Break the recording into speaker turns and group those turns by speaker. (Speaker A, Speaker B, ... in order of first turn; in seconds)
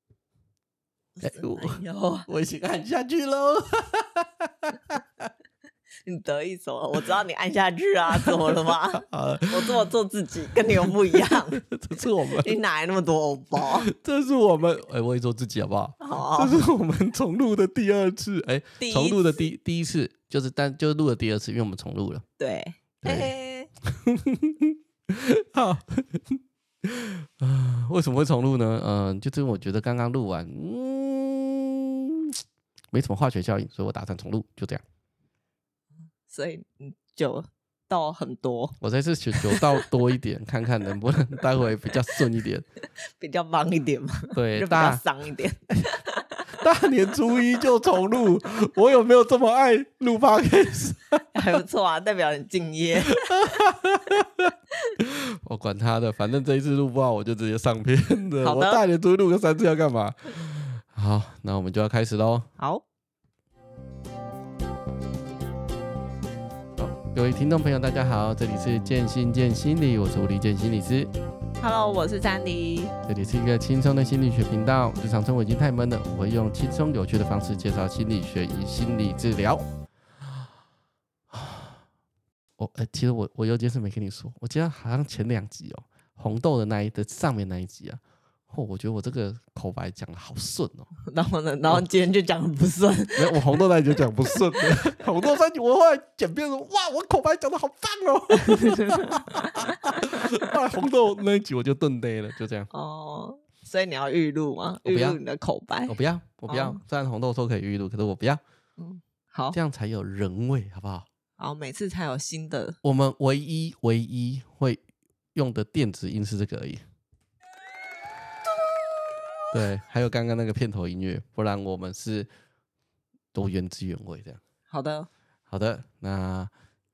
Speaker A: 1.2-2.3, 6.0-11.6, 12.3-13.9, 16.0-16.6, 18.8-19.5, 22.4-23.7, 36.2-38.8, 39.3-39.9, 43.2-46.4, 51.3-53.6, 58.4-58.8, 62.6-62.8, 71.6-72.9, 91.0-93.6, 94.3-94.7, 98.4-100.4, 102.7-105.9, 106.5-106.8, 108.8-109.6, 111.4-112.8, 124.7-125.1
Speaker B: 1.2-5.3, 8.2-9.9, 10.8-12.5, 13.6-22.2, 23.0-23.3, 23.9-32.4, 32.9-34.8, 38.8-42.6, 44.3-45.0, 46.6-51.2, 53.1-62.5, 66.8-71.1, 73.0-79.6, 81.3-81.8, 82.6-90.9, 93.2-102.7, 104.8-105.2, 105.9-108.4, 109.5-111.1, 112.8-114.8, 115.3-116.8, 119.5-122.3, 123.3-124.4, 125.5-126.5